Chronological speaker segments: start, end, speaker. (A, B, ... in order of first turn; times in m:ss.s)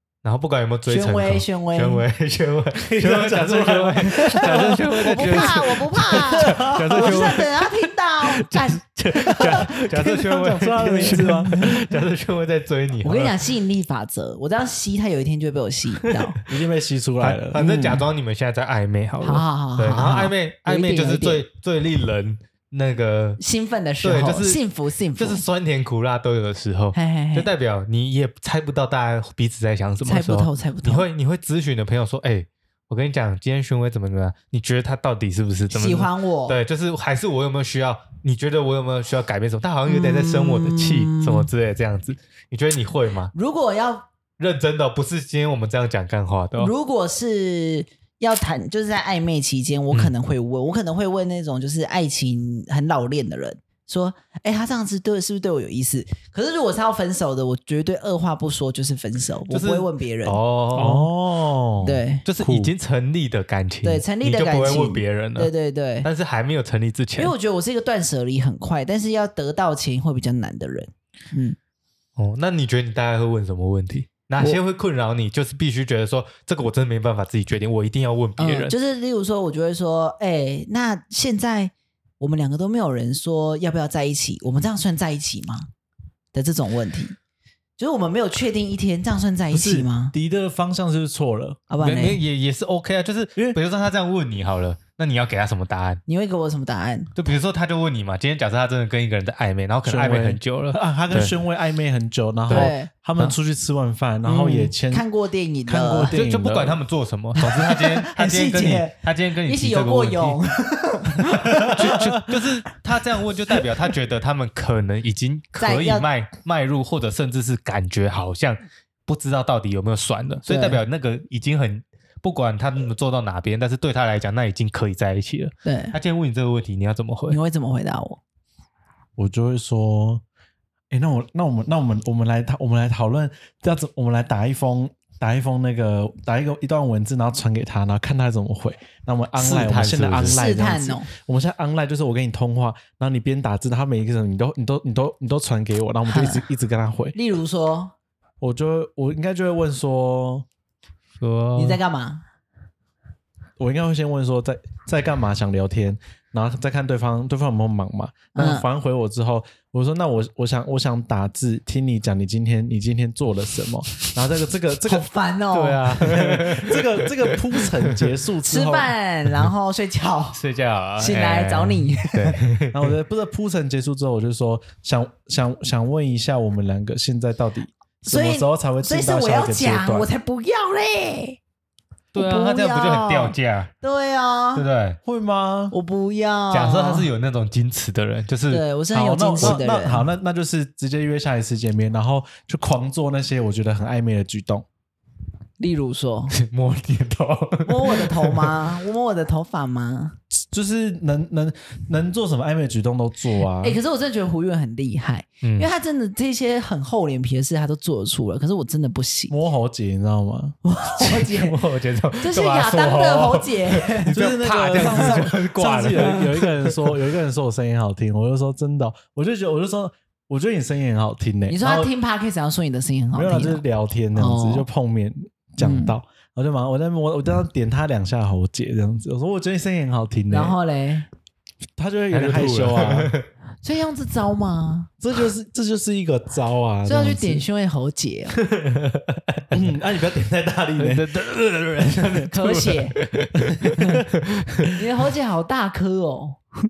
0:00.2-0:07.8 A
0:00.9-0:02.0 B
0:02.8-0:07.3 C
0:05.0-0:09.6 B
0:08.2-0:13.4 A
0:09.2-0:11.8 C
0:11.0-0:11.7 B
0:13.0-0:16.4 B
0:16.5-0:17.6 C
0:17.2-0:23.4 A
0:17.6-0:18.1 B
0:19.2-0:21.4 B
0:23.4-0:25.4 B
0:24.0-0:24.6 A
0:25.2-0:43.3 A
0:26.9-0:27.5 B
0:30.0-0:31.1 B
0:35.7-0:36.6 B
0:39.9-0:41.5 B
0:43.3-0:44.1 B
0:44.4-0:46.7 A
0:46.6-1:00.4 B
0:59.5-1:01.1 A
1:00.8-1:02.7 C
1:01.8-1:02.2 B
1:02.2-1:05.5 A
1:03.8-1:06.1 B
1:06.0-1:07.3 A
1:07.2-1:11.6 B
1:12.2-1:18.8 A
1:18.4-1:25.7 B
1:26.3-1:27.2 B
1:27.8-1:30.1 B
1:29.5-1:31.6 C
1:31.7-1:32.2 B
1:31.8-1:36.0 A
1:36.1-1:37.1 B
1:37.1-1:41.3 A
1:39.8-1:45.0 C
1:42.5-1:43.3 A
1:42.5-1:42.9 B
1:44.2-1:46.2 B
1:45.7-1:46.8 C
1:46.1-1:50.4 A
1:47.4-1:51.8 B
1:51.4-1:52.2 C
1:51.6-2:07.4 A
1:55.6-1:56.1 B
2:00.5-2:00.8 B
2:05.6-2:06.0 B
2:07.3-2:08.2 B
2:09.2-2:10.2 C
2:10.9-2:27.2 C
2:19.4-2:20.4 A
2:20.3-2:21.1 B
2:26.1-2:26.4 B
2:27.1-2:27.9 B
2:28.4-2:30.5 C
2:31.2-2:31.8 A
2:31.6-2:32.2 B
2:33.6-2:45.1 C
2:38.3-2:38.7 B
2:44.8-2:45.8 B
2:45.5-2:48.0 A
2:46.0-2:48.9 C
2:48.5-2:50.4 B
2:50.3-2:53.0 A
2:51.0-2:52.4 B
2:52.7-3:00.1 C
2:58.0-3:01.4 B
3:02.1-3:03.7 A
3:02.1-3:04.6 B
3:04.6-3:05.0 A
3:05.0-3:05.7 C
3:05.7-3:07.1 B
3:06.5-3:08.6 A
3:08.5-3:10.1 B
3:08.9-3:14.6 C
3:15.6-3:16.4 B
3:16.3-3:18.6 A
3:17.6-3:20.2 B
3:20.4-3:23.8 C
3:23.6-3:29.4 B
3:25.4-3:25.7 A
3:29.3-3:30.6 C
3:30.6-3:31.6 B
3:31.0-3:37.0 A
3:32.2-3:34.2 B
3:34.1-3:41.9 C
3:34.8-3:35.1 B
3:41.5-3:43.6 B
3:43.1-3:50.6 C
3:44.1-3:44.7 B
3:45.6-3:46.0 B
3:50.3-3:51.1 B
3:51.8-3:53.1 C
3:52.1-3:53.3 A
3:53.6-3:54.9 B
3:55.0-3:57.4 C
3:56.9-3:58.4 B
3:58.4-3:59.6 A
3:59.5-4:01.1 C
4:00.8-4:04.8 A
4:02.3-4:03.0 B
4:03.4-4:04.0 C
4:04.8-4:06.4 B